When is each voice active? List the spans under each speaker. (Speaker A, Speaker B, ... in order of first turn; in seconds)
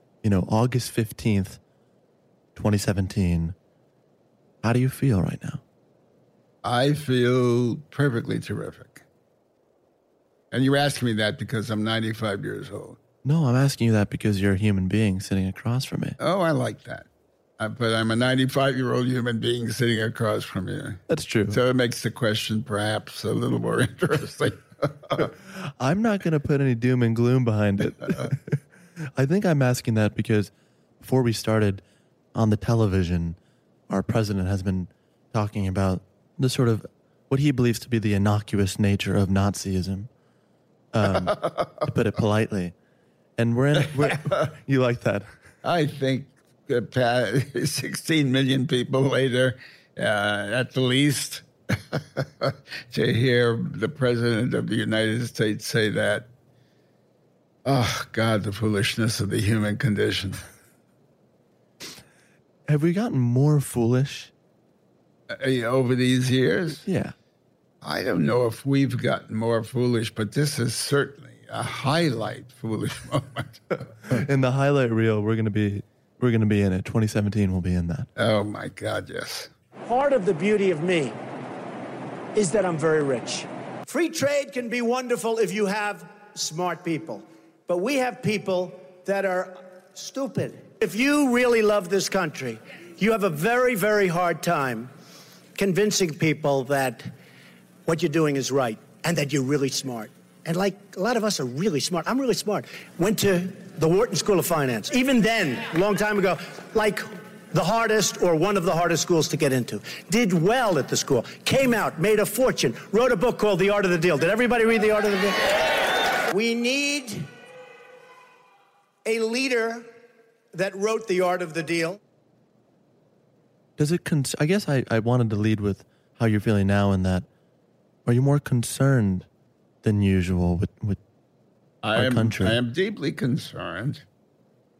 Speaker A: 0.2-1.6, 2.5-3.5, 4.6-5.6, 13.2-16.2, 21.1-21.6, 25.4-31.8, 32.3-33.4, 33.9-40.1, 40.9-42.7, 43.4-45.3, 62.7-64.3, 66.8-67.1, 74.1-78.1, 123.8-127.3, 128.0-129.3, 129.8-131.0, 131.9-132.6
Speaker B: 6.6-9.0, 10.5-13.0, 16.2-17.1, 17.6-25.3, 41.2-41.7, 44.1-44.3, 45.6-56.3, 57.6-60.4, 65.3-66.8, 67.8-74.2, 78.2-79.5, 131.8-134.0
Speaker C: 79.8-81.2, 82.3-94.9, 95.5-97.1, 97.8-115.6, 116.3-117.3, 119.0-119.9, 120.5-122.0